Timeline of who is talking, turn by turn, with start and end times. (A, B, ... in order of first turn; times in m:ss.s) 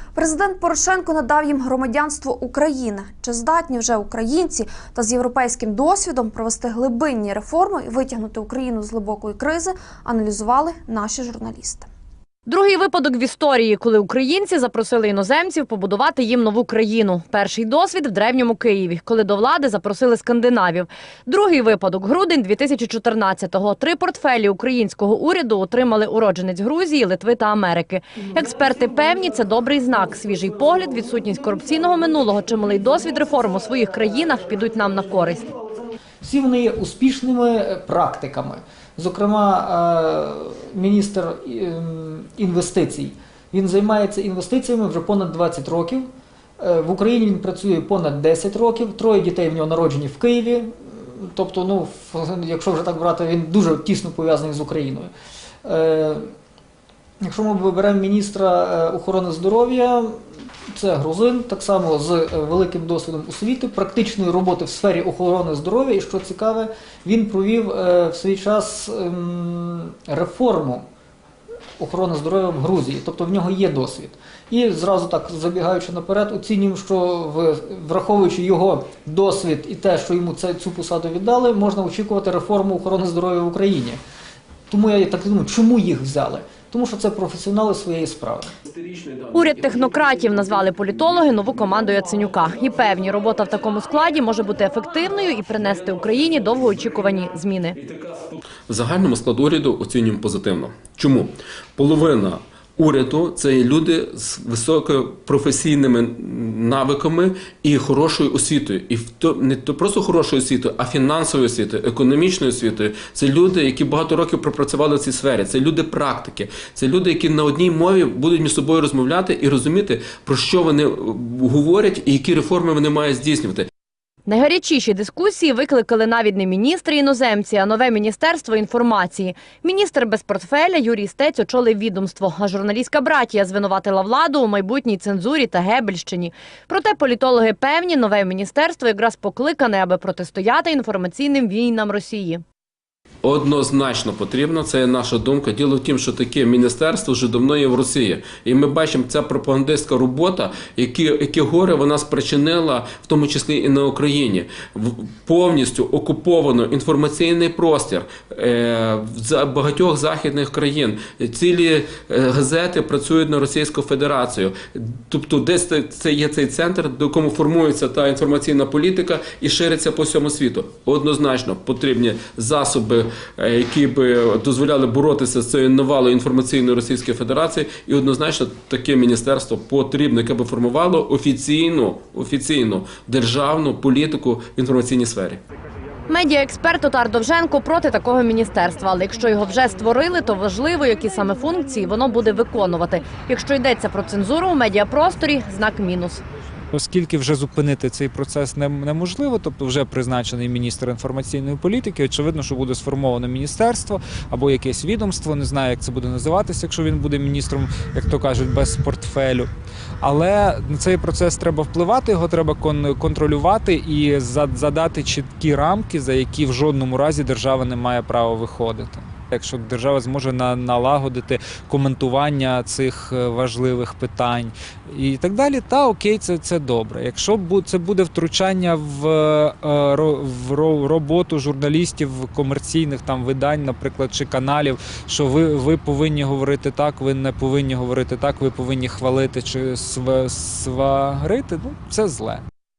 0:00.1-0:11.9 A
0:12.5-0:35.5 B
0:36.2-0:55.1 C
0:55.6-0:56.3 C
0:57.2-1:00.2 C
1:00.7-1:10.8 C
1:11.8-1:24.0 C
1:24.7-1:28.5 C
1:28.7-1:29.3 D
1:29.3-1:37.8 B
1:37.8-2:03.7 D
2:04.2-2:22.4 B
2:23.2-3:05.4 D
3:06.1-3:16.2 B
3:16.7-3:29.5 E
3:30.0-4:02.4 E